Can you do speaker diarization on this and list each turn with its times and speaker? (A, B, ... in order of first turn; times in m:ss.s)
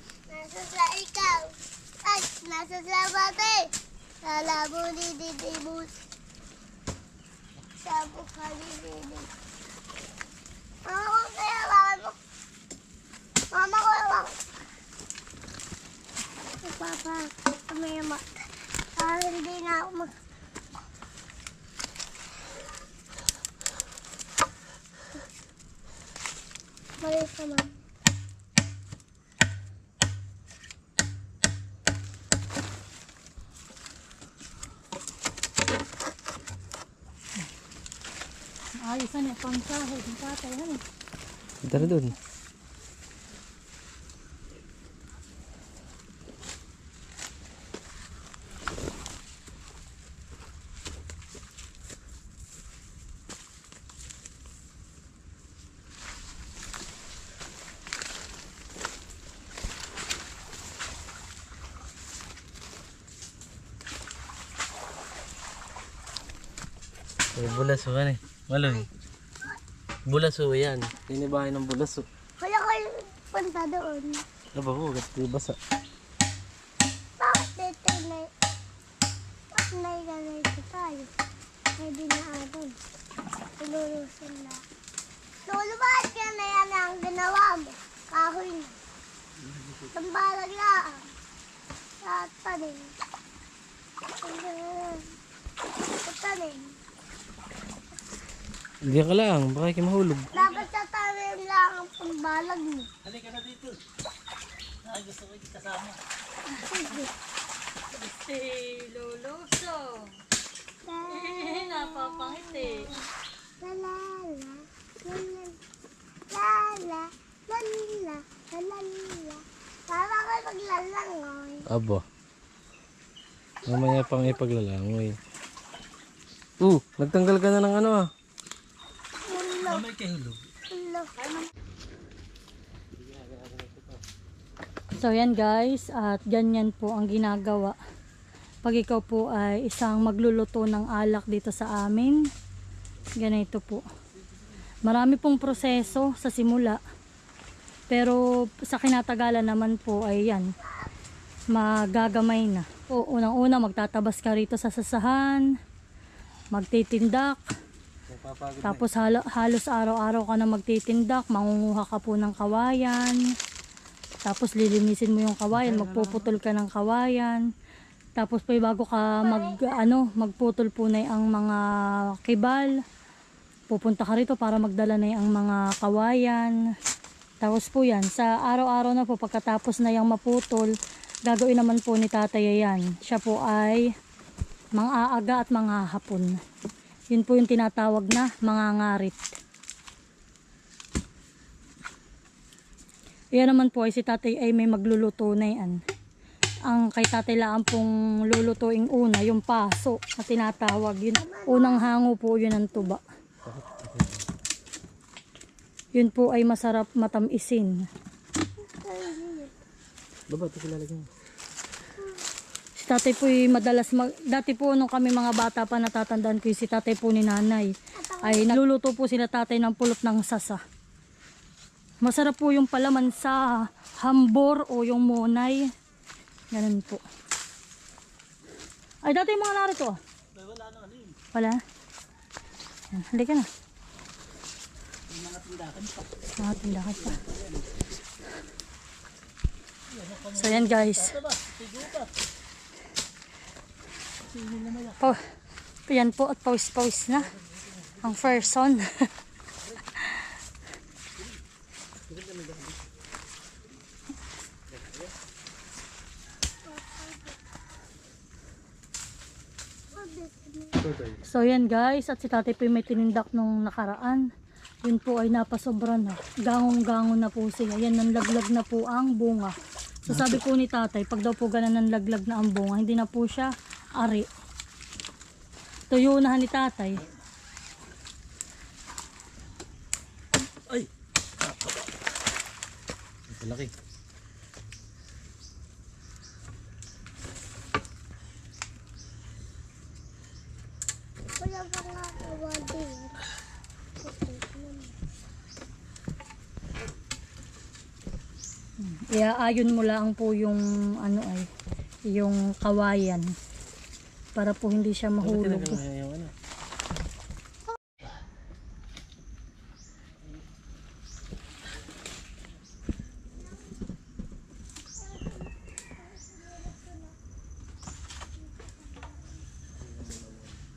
0:00.3-0:03.7 A
0:04.2-0:06.0 A
0:07.8-0:09.3 A
0:10.9-0:12.2 A
0:13.5-0:14.4 A
0:16.6-0:18.2 A
0:19.0-0:20.1 A
0:27.0-0:27.7 A
0:38.8-0:40.8 B
0:41.6-0:42.2 C
1:07.4-1:08.9 C
1:07.4-1:07.8 A
1:10.1-1:12.0 C
1:12.4-1:14.2 A
1:14.6-1:15.6 C
1:17.2-1:18.3 A
1:19.5-1:21.1 A
1:21.8-1:22.8 A
1:23.6-1:24.6 A
1:25.5-1:28.8 A
1:29.4-1:30.0 D
1:29.9-1:31.0 A
1:32.0-1:32.9 A
1:34.2-1:35.1 A
1:36.0-1:36.8 A
1:38.8-1:40.3 C
1:40.3-1:42.9 A
1:40.3-1:40.7 D
1:43.0-1:43.8 D
1:44.8-1:46.0 D
1:46.7-1:47.1 A
1:47.9-1:50.2 B
1:50.8-1:53.0 A
1:51.0-1:52.9 B
1:53.6-1:55.6 A
1:56.3-2:01.6 A
2:01.7-2:02.0 C
2:03.6-2:04.4 A
2:03.7-2:05.2 C
2:06.6-2:08.1 C
2:09.3-2:09.8 A
2:09.6-2:10.4 D
2:10.7-2:11.1 A
2:13.0-2:14.0 C
2:15.0-2:17.8 B
2:18.6-2:22.3 B
2:23.2-2:23.8 B
2:24.9-2:26.8 B
2:27.9-2:30.5 B
2:30.6-2:30.9 A
2:31.5-2:35.5 B
2:36.5-2:37.4 B
2:38.1-2:38.8 C
2:38.6-2:43.2 B
2:44.2-2:47.4 B
2:45.5-2:46.3 C
2:48.2-2:52.8 B
2:49.2-2:49.8 A
2:53.7-2:56.6 B
2:57.4-3:00.7 B
3:01.3-3:03.9 B
3:04.8-3:06.4 B
3:07.1-3:09.3 B
3:13.4-3:15.8 B
3:16.7-3:23.0 B
3:21.2-3:21.9 A
3:23.4-3:24.2 C
3:26.0-3:27.9 B
3:28.6-3:29.5 A
3:30.3-3:31.1 C
3:32.0-3:32.2 A
3:32.8-3:37.7 B
3:38.0-3:38.6 A
3:38.2-3:40.6 B
3:42.0-3:45.7 B
3:46.5-3:47.0 B
3:49.0-3:50.0 B
3:50.4-3:51.2 D
3:51.3-3:51.6 B
3:52.9-3:53.5 B
3:55.1-3:56.1 D
3:56.4-3:57.2 B
3:56.6-3:57.8 D
3:59.9-4:02.1 D
4:00.4-4:01.1 B
4:04.2-4:05.2 D
4:05.9-4:07.3 B
4:07.6-4:08.3 C
4:08.0-4:09.1 B
4:12.1-4:12.8 C
4:14.7-4:15.1 C
4:16.7-4:17.4 A
4:19.9-4:20.8 A
4:20.8-4:21.2 C
4:21.3-4:24.2 B
4:24.8-4:29.5 B
4:30.1-4:34.3 B
4:30.1-4:30.4 D
4:35.9-4:37.0 B
4:40.7-4:41.9 D
4:43.3-4:43.7 C
4:51.4-4:53.2 A
4:54.0-4:55.0 A
4:58.8-5:01.5 B
5:02.1-5:03.4 B
5:04.4-5:05.8 B
5:05.2-5:06.3 C
5:15.0-5:17.2 A
5:18.4-5:19.4 A
5:19.8-5:20.6 C